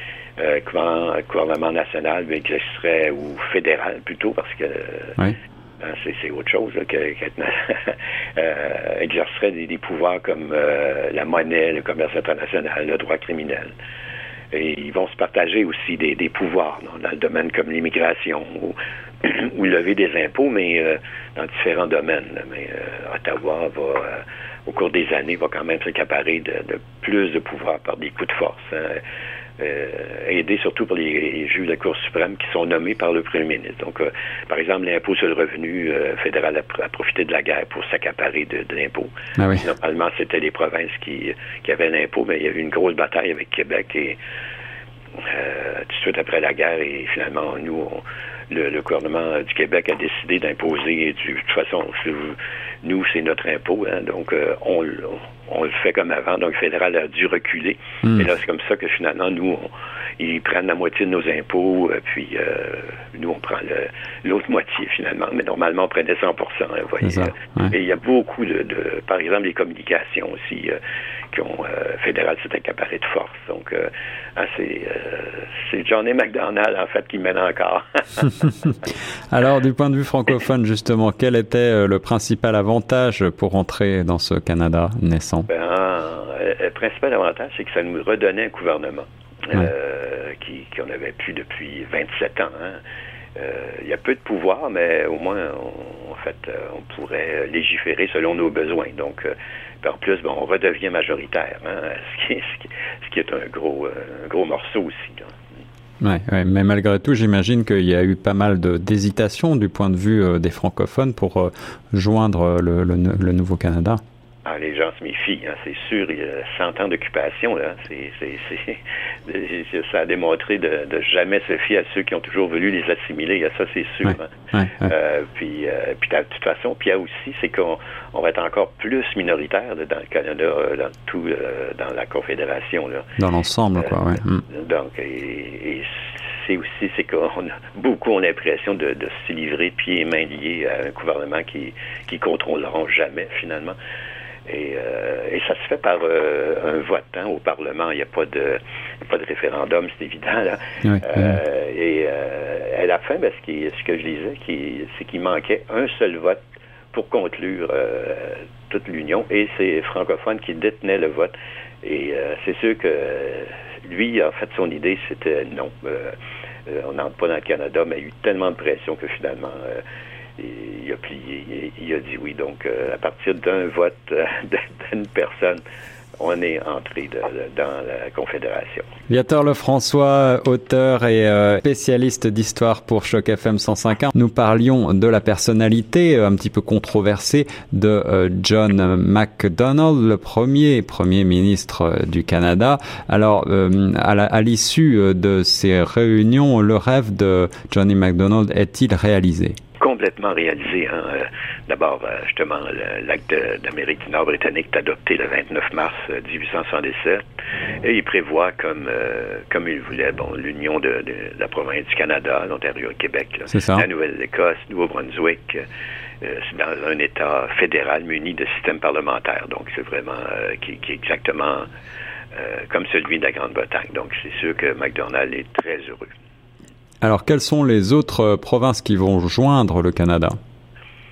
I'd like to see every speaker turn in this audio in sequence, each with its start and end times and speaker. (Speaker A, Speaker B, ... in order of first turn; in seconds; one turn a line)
Speaker A: 0.4-5.2
Speaker A: 5.8-13.7
Speaker A: 14.5-29.0
Speaker A: 29.6-44.2
Speaker B: 39.4-39.6
Speaker A: 45.2-70.8
Speaker B: 67.0-67.7
Speaker A: 71.3-78.5
Speaker B: 79.3-85.5
Speaker A: 85.5-92.8
Speaker A: 93.3-105.3
Speaker B: 106.0-114.0
Speaker A: 114.4-133.1
Speaker B: 124.5-124.9
Speaker B: 133.2-134.4
Speaker A: 134.5-143.8
Speaker A: 144.4-169.8
Speaker B: 150.8-151.3
Speaker A: 170.4-175.6
Speaker A: 176.2-178.9
Speaker B: 179.1-199.6
Speaker A: 199.8-207.2
Speaker A: 207.8-215.6
Speaker B: 213.5-213.8
Speaker A: 216.2-221.7
Speaker A: 222.3-226.1
Speaker B: 227.0-230.4